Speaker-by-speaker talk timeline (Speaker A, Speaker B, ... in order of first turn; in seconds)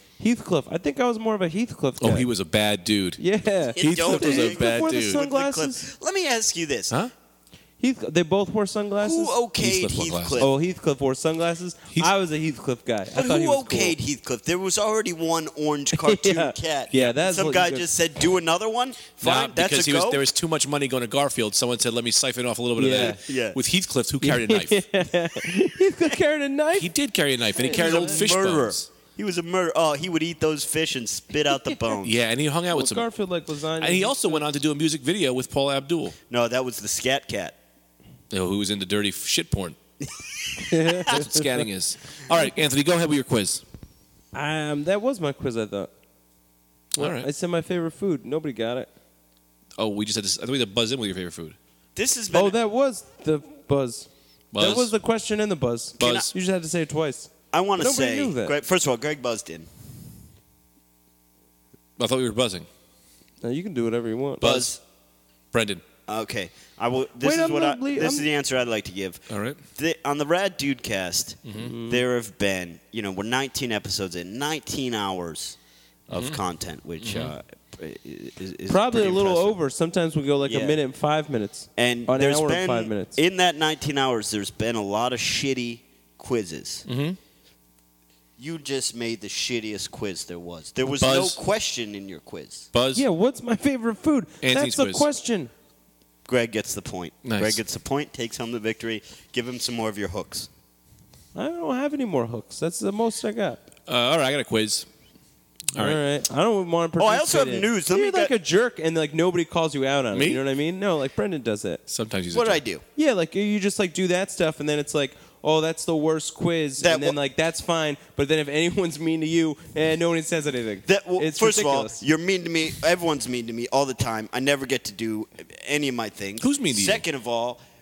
Speaker A: 0.2-2.3, 3.2-5.9, 7.8-9.3, 10.4-14.0, 16.0-17.9, 22.8-23.2, 24.2-26.9, 27.6-28.2, 32.7-34.5, 40.6-41.7, 44.3-45.9, 46.9-48.9, 52.3-58.6, 63.4-64.7, 67.2-68.3, 71.6-72.0, 78.7-83.2, 92.9-95.5, 101.3-103.7, 105.7-111.8, 113.0-122.0
Speaker B: 2.0-3.2, 3.8-5.2, 9.6-10.5, 19.2-24.9, 26.8-28.9, 32.0-33.1, 33.8-36.2, 38.3-39.8, 41.0-43.6, 47.0-47.3, 49.8-51.6, 54.5-54.9, 56.0-56.3, 62.0-62.7, 64.4-64.8, 65.5-65.8, 69.3-69.6, 71.5-71.7, 76.1-76.4, 77.0-77.3, 86.9-87.2, 91.0-91.4, 92.7-93.0, 94.4-95.1, 97.2-97.6, 103.9-104.9, 105.7-106.0, 110.1-110.4, 111.9-112.6, 126.4-127.0
Speaker C: 3.8-7.0, 9.0-10.5, 13.1-20.2, 22.9-23.6, 27.6-32.1, 36.3-37.6, 52.0-52.6, 56.0-56.3, 57.5-59.7, 64.4-64.7, 66.1-75.6, 76.1-79.6, 80.4-80.8, 81.8-86.8, 88.4-92.7, 96.3-100.5, 107.0-108.3, 112.3-112.8, 116.8-117.2, 120.9-127.6